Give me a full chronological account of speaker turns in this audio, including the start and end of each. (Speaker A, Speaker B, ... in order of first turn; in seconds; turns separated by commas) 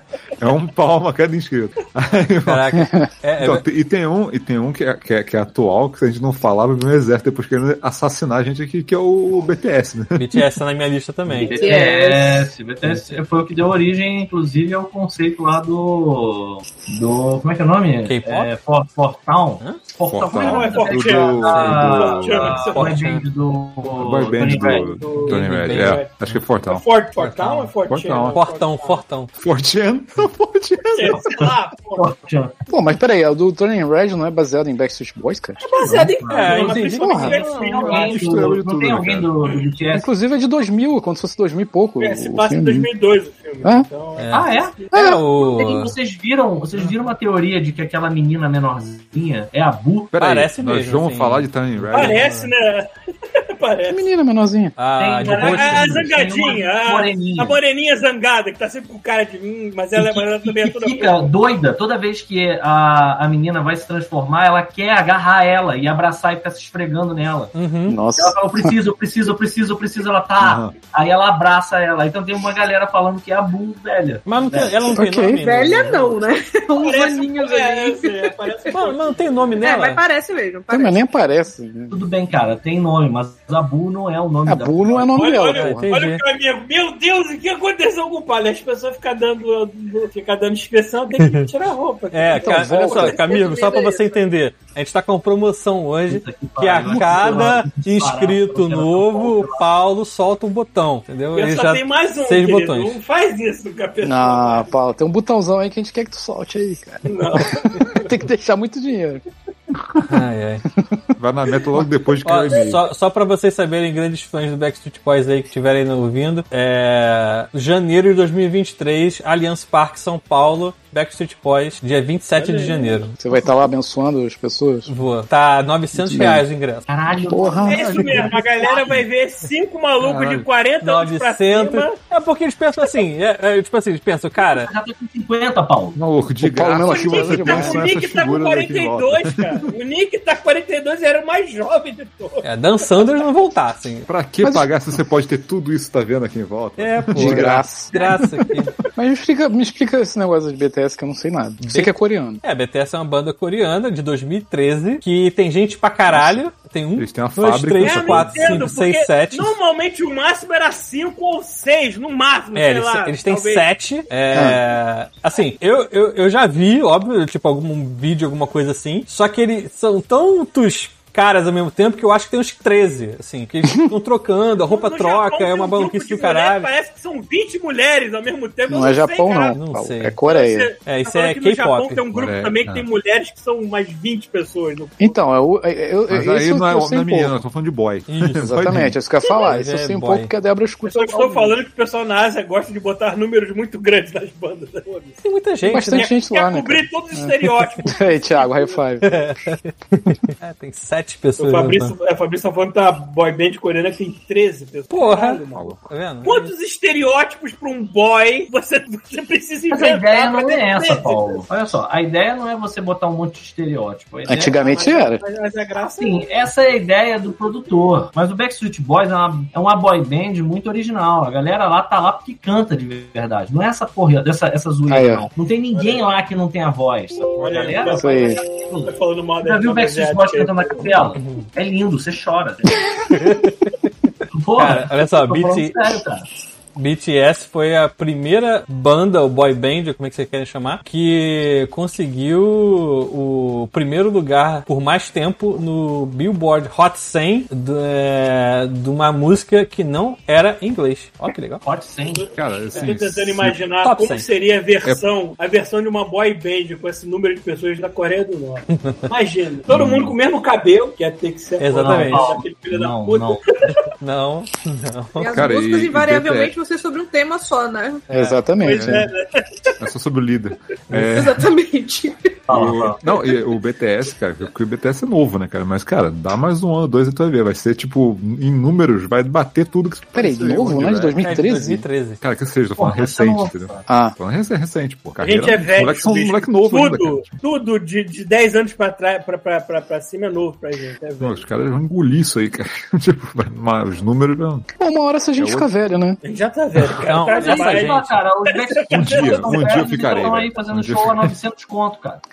Speaker A: 0.4-2.7, Speaker B: 2.5-3.6, Speaker C: 2.8-3.1, Speaker A: 3.4-10.4, Speaker B: 10.2-11.8, Speaker D: 11.4-24.9, Speaker E: 11.4-12.4, Speaker B: 12.8-13.1, Speaker B: 18.1-18.5, Speaker A: 20.1-23.0, Speaker F: 20.3-23.0, Speaker B: 21.5-21.9, Speaker B: 22.8-23.2, Speaker A: 23.9-26.8, Speaker F: 24.5-26.1, Speaker B: 25.2-26.0, Speaker F: 26.6-29.0, Speaker B: 27.2-27.7, Speaker A: 27.9-28.4, Speaker B: 28.3-29.3, Speaker A: 29.4-31.2, Speaker F: 30.9-32.1, Speaker D: 31.1-32.5, Speaker C: 32.7-36.0, Speaker F: 35.6-38.4, Speaker D: 35.8-40.1, Speaker B: 36.3-37.9, Speaker C: 36.7-37.4, Speaker A: 37.7-39.3, Speaker C: 39.9-42.9, Speaker F: 42.0-44.9, Speaker B: 44.2-45.9, Speaker D: 44.3-44.8, Speaker C: 44.9-45.2, Speaker D: 45.5-50.1, Speaker A: 50.1-52.2, Speaker B: 50.2-52.5, Speaker F: 51.9-54.1, Speaker C: 53.9-54.8, Speaker B: 54.8-56.1, Speaker D: 55.0-57.6, Speaker F: 55.2-61.3, Speaker D: 60.0-67.5, Speaker B: 67.5-68.0, Speaker C: 67.9-68.7, Speaker D: 68.2-74.9, Speaker A: 70.4-70.8, Speaker B: 74.3-76.2, Speaker C: 74.9-75.4, Speaker E: 75.3-78.6, Speaker F: 76.8-79.6, Speaker B: 78.7-80.0, Speaker E: 79.6-81.1, Speaker C: 80.7-82.0, Speaker D: 81.9-85.2, Speaker C: 84.5-85.9, Speaker F: 85.1-93.4, Speaker B: 85.5-86.2, Speaker B: 91.2-91.5, Speaker B: 92.1-103.0, Speaker C: 92.4-93.2, Speaker E: 93.1-94.2, Speaker D: 96.1-99.7, Speaker F: 101.3-104.7, Speaker C: 104.0-109.2, Speaker F: 107.1-108.1, Speaker B: 110.1-110.6, Speaker C: 110.8-111.0, Speaker A: 111.2-112.8, Speaker B: 112.2-123.2, Speaker F: 122.4-123.0, Speaker C: 123.2-124.9, Speaker B: 124.9-126.9, Speaker C: 125.9-126.5, Speaker D: 126.9-129.0, Speaker C: 127.3-128.3, Speaker F: 127.6-132.0, Speaker A: 128.0-129.0, Speaker A: 130.0-130.5, Speaker B: 130.8-134.7, Speaker D: 134.5-136.0, Speaker A: 136.0-139.7, Speaker C: 136.4-137.9, Speaker F: 136.8-142.4, Speaker B: 142.4-144.1, Speaker A: 144.1-147.7, Speaker C: 144.4-144.7, Speaker B: 146.8-148.7, Speaker C: 147.2-147.9, Speaker C: 149.0-152.4, Speaker B: 151.7-159.6, Speaker A: 156.1-156.4, Speaker A: 157.0-158.7, Speaker F: 157.8-163.7, Speaker B: 162.6-176.7, Speaker C: 164.3-164.6, Speaker F: 174.7-179.6, Speaker C: 178.7-180.7, Speaker B: 179.5-180.2, Speaker F: 180.3-185.2, Speaker B: 180.8-182.1, Speaker A: 182.1-182.9, Speaker C: 185.0-187.4, Speaker A: 186.1-189.0, Speaker B: 188.1-188.5, Speaker C: 188.4-191.6, Speaker B: 189.4-190.3, Speaker F: 190.8-198.8, Speaker B: 195.2-196.1, Speaker C: 195.7-199.1, Speaker B: 199.0-201.9, Speaker F: 201.4-205.7, Speaker B: 204.9-206.5, Speaker A: 205.5-205.9, Speaker F: 206.2-211.4, Speaker D: 209.7-214.6, Speaker C: 214.3-215.2, Speaker F: 214.5-216.3, Speaker D: 216.0-232.8, Speaker C: 224.9-225.3, Speaker F: 225.7-226.1, Speaker F: 227.4-231.0, Speaker C: 227.9-228.4, Speaker B: 231.2-231.5, Speaker B: 233.1-233.7, Speaker D: 234.3-236.3, Speaker B: 234.6-235.8, Speaker B: 236.8-251.6, Speaker D: 251.6-252.3, Speaker F: 252.2-263.8, Speaker A: 252.4-253.6, Speaker B: 253.8-254.3, Speaker B: 258.8-259.1, Speaker D: 259.7-260.1, Speaker B: 261.6-262.4, Speaker D: 261.7-263.8, Speaker B: 264.0-265.5, Speaker E: 265.2-268.1, Speaker A: 265.3-266.5, Speaker B: 268.1-268.4, Speaker C: 268.1-269.1, Speaker F: 268.6-269.7, Speaker A: 269.8-271.5, Speaker E: 271.0-272.4, Speaker D: 272.5-273.0, Speaker A: 272.5-281.6, Speaker C: 280.1-281.9, Speaker B: 281.2-282.2, Speaker A: 282.2-287.3, Speaker D: 282.8-283.9, Speaker C: 283.9-284.1, Speaker F: 285.2-291.4, Speaker A: 291.2-294.7, Speaker C: 294.8-296.2, Speaker A: 295.4-295.7, Speaker F: 296.2-300.4, Speaker B: 297.0-298.2, Speaker D: 297.4-302.2, Speaker A: 298.9-301.3